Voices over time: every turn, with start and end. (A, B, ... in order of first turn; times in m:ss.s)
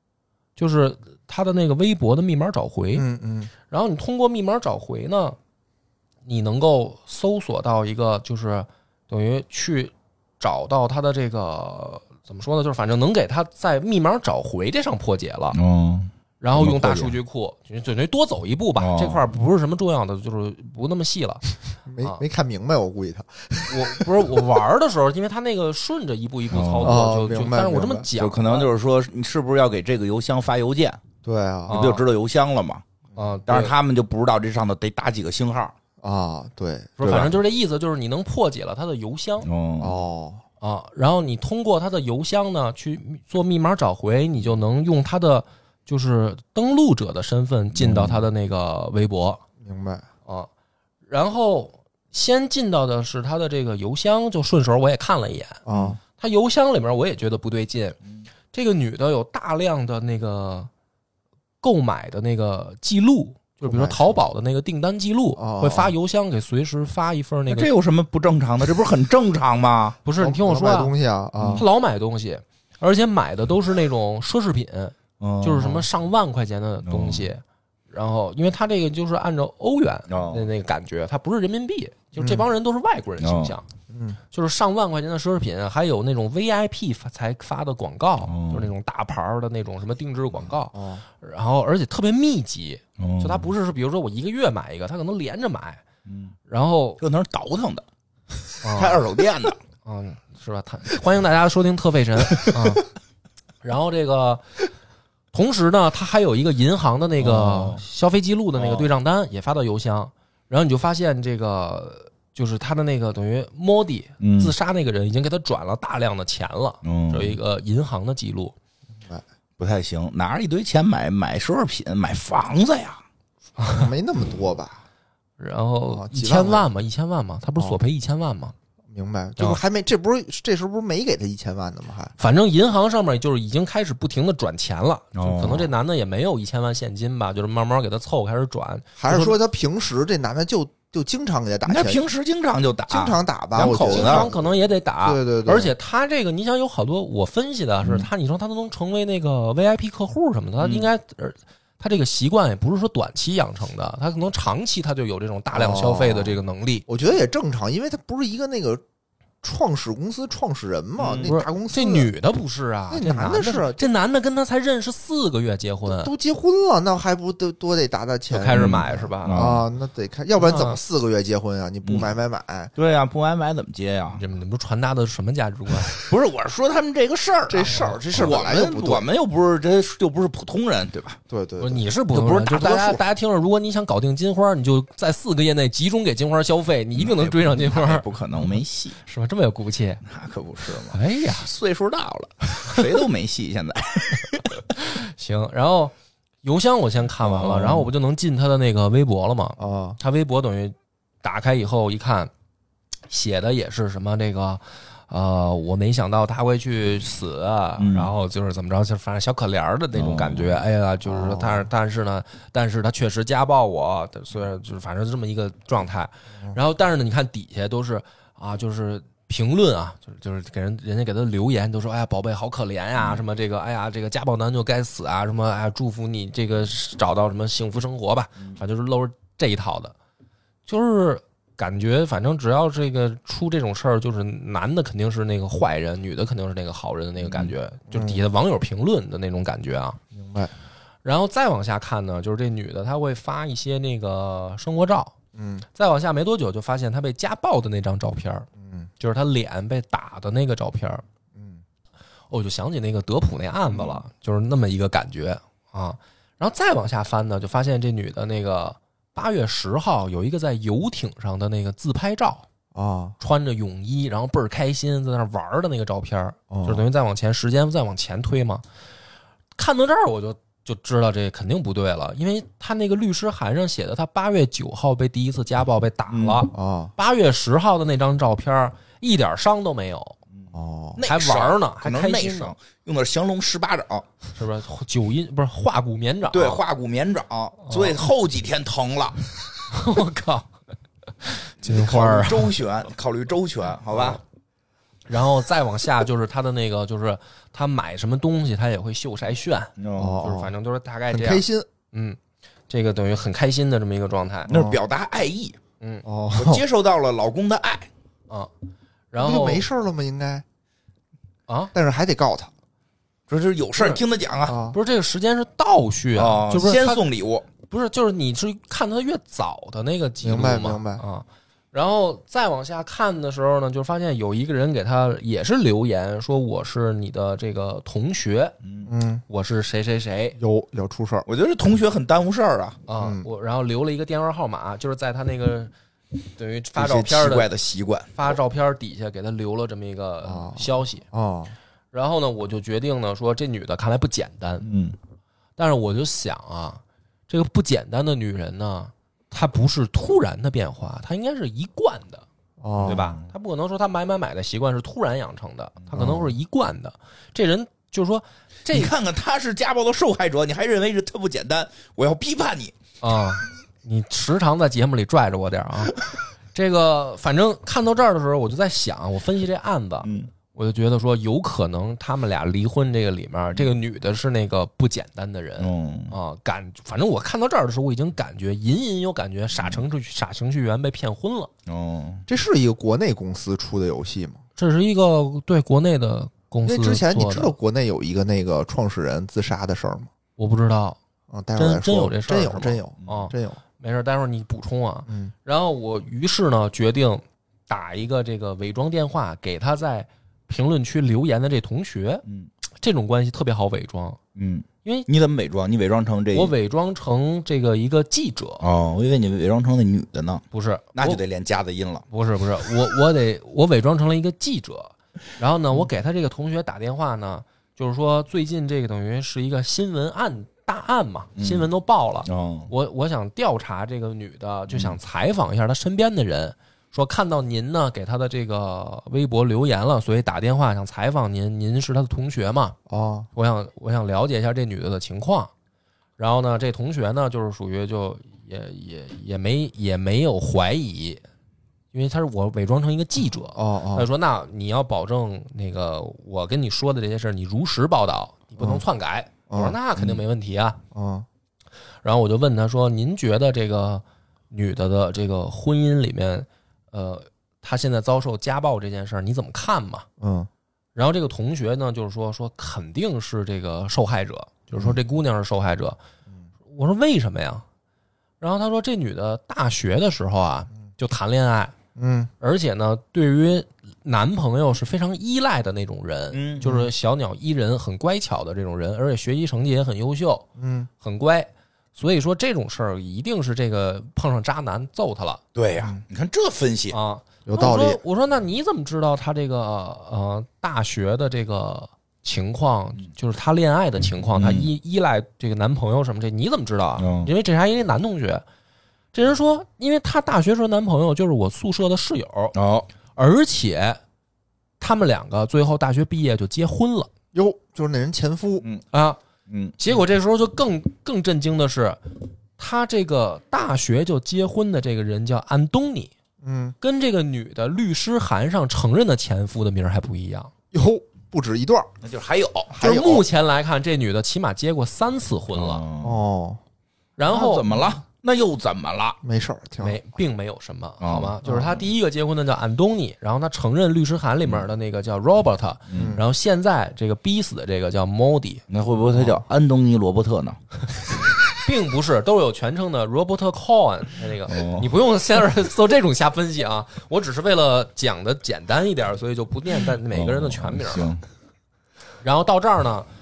0:00.6-0:03.0 A
0:02.9-0:03.5 B
0:03.7-0:05.4 A
0:06.2-0:15.6 A
0:15.5-0:17.2 C
0:16.4-0:21.4 A
0:18.8-0:19.2 C
0:21.8-0:24.3 B
0:23.7-0:28.7 A
0:26.5-0:27.0 C
0:26.8-0:28.1 B
0:28.2-0:31.0 C
0:31.2-0:31.8 B
0:31.7-0:32.0 A
0:31.7-0:32.8 C
0:33.2-0:33.7 A
0:33.5-0:35.7 C
0:36.0-0:37.0 B
0:37.0-0:39.5 A
0:37.0-0:37.4 C
0:39.4-0:40.0 C
0:39.8-0:40.4 B
0:40.6-0:49.4 A
0:47.7-0:48.2 C
0:49.6-0:50.0 B
0:51.1-0:55.6 A
0:55.6-0:56.0 B
0:55.7-0:56.0 C
0:56.2-0:58.0 A
0:58.5-1:00.7 A
1:01.6-1:07.7 A
1:03.6-1:04.1 B
1:05.4-1:05.9 B
1:07.5-1:10.0 C
1:10.0-1:10.9 A
1:10.2-1:11.6 B
1:11.6-1:23.7 A
1:15.2-1:15.8 C
1:16.8-1:17.3 C
1:20.1-1:20.4 C
1:22.2-1:22.4 B
1:23.2-1:23.5 C
1:23.9-1:24.2 B
1:24.3-1:35.8 A
1:28.2-1:28.7 C
1:30.7-1:31.0 B
1:33.0-1:33.5 C
1:36.1-1:36.3 C
1:36.5-1:37.0 A
1:37.0-1:37.8 C
1:38.6-1:39.0 A
1:38.6-1:39.6 C
1:39.8-1:42.8 A
1:43.6-1:44.4 A
1:45.3-1:58.5 A
1:47.2-1:47.8 C
1:48.5-1:48.9 C
1:54.2-1:54.5 C
1:56.8-1:57.4 C
1:59.6-2:03.0 C
2:03.6-2:03.9 A
2:03.7-2:04.8 B
2:05.4-2:08.5 A
2:05.9-2:06.6 B
2:08.9-2:12.1 B
2:12.2-2:19.4 A
2:15.2-2:15.7 C
2:19.0-2:22.0 B
2:21.6-2:24.3 C
2:22.9-2:25.7 B
2:23.8-2:36.8 A
2:30.6-2:30.9 C
2:35.5-2:38.8 B
2:39.4-2:42.1 B
2:41.0-2:41.3 C
2:41.2-2:46.1 A
2:42.9-2:43.9 B
2:45.9-2:52.7 B
2:48.3-2:49.6 A
2:48.5-2:49.6 C
2:50.4-2:50.8 A
2:51.8-2:52.1 C
2:52.8-2:54.2 C
2:54.1-2:56.0 A
2:55.9-3:01.2 C
2:57.5-2:59.0 B
2:57.6-2:58.0 A
3:01.3-3:01.8 B
3:01.6-3:10.0 A
3:02.1-3:03.0 C
3:07.0-3:09.0 C
3:10.0-3:14.6 C
3:10.9-3:11.5 A
3:14.7-3:22.3 A
3:17.2-3:17.9 C
3:19.6-3:20.0 B
3:23.1-3:49.9 A
3:27.8-3:28.1 C
3:29.9-3:30.6 C
3:31.0-3:31.7 B
3:50.7-4:00.0 A
3:57.2-3:57.5 C
3:57.9-3:58.2 B
4:00.1-4:00.5 B
4:01.0-4:05.1 A
4:05.4-4:05.6 B
4:05.7-4:08.5 A
4:08.6-4:08.9 B
4:09.0-4:11.0 A
4:11.4-4:11.6 B
4:12.3-4:22.4 A
4:22.7-4:23.2 B
4:23.2-4:28.6 A
4:26.5-4:26.8 B
4:29.6-4:40.2 A
4:36.1-4:36.4 C
4:36.5-4:36.9 B
4:40.3-4:44.1 C
4:40.5-4:41.0 B
4:41.0-4:42.5 A
4:44.3-4:46.6 A
4:46.3-4:49.3 C
4:47.6-4:48.0 A
4:49.7-4:50.5 A
4:51.2-4:52.5 A
4:51.6-4:54.2 C
4:53.9-4:54.2 A
4:55.1-5:02.2 A
4:59.8-5:00.2 C
5:00.0-5:00.5 B
5:01.1-5:01.7 B
5:02.7-5:04.5 A
5:04.5-5:05.6 C
5:04.5-5:04.8 B
5:06.0-5:06.6 B
5:06.3-5:07.9 C
5:09.1-5:09.6 A
5:09.2-5:10.4 B
5:11.5-5:11.7 A
5:11.7-5:12.5 B
5:13.3-5:14.6 C
5:14.4-5:14.8 B
5:14.7-5:17.0 A
5:16.1-5:17.5 C
5:17.7-5:28.5 A
5:20.2-5:21.0 B
5:28.6-5:28.9 C
5:28.8-5:29.2 B
5:29.3-5:30.4 A
5:30.4-5:31.2 B
5:31.3-5:32.8 C
5:32.9-5:35.7 A
5:33.0-5:33.3 B
5:36.4-5:37.5 A
5:36.8-5:38.3 C
5:38.1-5:41.0 A
5:40.2-5:41.5 B
5:41.9-5:44.7 A
5:44.6-5:45.0 C
5:45.6-5:52.2 A
5:52.6-5:53.0 B
5:52.8-5:53.3 C
5:52.8-5:58.9 A
5:55.9-5:56.3 B
5:58.7-6:02.7 C
6:03.0-6:06.0 A
6:06.5-6:21.5 A
6:10.0-6:10.3 C
6:15.6-6:16.1 C
6:19.6-6:19.8 C
6:21.7-6:22.2 C
6:22.3-6:24.4 B
6:24.6-6:27.5 A
6:26.6-6:30.1 B
6:30.4-6:31.0 A
6:31.3-6:33.6 B
6:31.6-6:42.2 A
6:35.1-6:35.3 B
6:42.8-6:44.2 A
6:44.4-6:46.5 C
6:46.3-6:48.6 A
6:48.6-6:52.0 C
6:50.5-6:51.2 A
6:52.1-7:12.8 A
7:01.4-7:01.7 C
7:02.2-7:02.7 C
7:04.7-7:05.0 C
7:12.9-7:13.3 B
7:13.3-7:15.5 A
7:16.2-7:21.2 A
7:21.9-7:30.8 A
7:23.5-7:24.1 B
7:29.5-7:29.8 B
7:30.9-7:31.2 B
7:32.0-7:40.0 A
7:40.2-7:40.5 B
7:40.9-7:46.0 A
7:46.7-7:47.6 A
7:48.4-7:51.7 A
7:52.0-7:52.3 B
7:52.4-8:00.5 A
7:56.3-7:56.6 C
7:56.6-7:56.9 B
8:00.6-8:00.9 B
8:01.0-8:05.4 A
8:05.5-8:07.0 C
8:06.9-8:18.4 A
8:07.4-8:08.0 B
8:14.4-8:14.7 C
8:17.0-8:17.3 C
8:19.1-8:22.5 A
8:22.5-8:22.9 C
8:23.2-8:24.0 A
8:24.8-8:27.1 A
8:27.3-8:28.6 B
8:28.9-8:29.2 A
8:29.5-8:29.8 C
8:29.8-8:32.0 A
8:32.6-8:36.1 A
8:36.4-8:36.8 B
8:36.8-8:40.5 A
8:40.7-8:41.9 B
8:42.0-8:43.2 C
8:42.7-8:43.2 B
8:42.8-8:45.8 A
8:45.5-8:46.2 C
8:46.0-8:46.6 B
8:47.2-8:47.7 A
8:47.3-8:49.2 C
8:49.2-8:50.0 B
8:49.8-8:58.6 A
8:51.0-8:51.4 C
8:51.4-8:51.8 B
8:55.9-8:56.2 C
8:55.9-8:56.2 B
8:58.7-9:00.6 C
8:59.1-8:59.4 B
9:01.5-9:11.1 A
9:04.5-9:04.9 C
9:10.1-9:11.2 C
9:12.2-9:13.1 A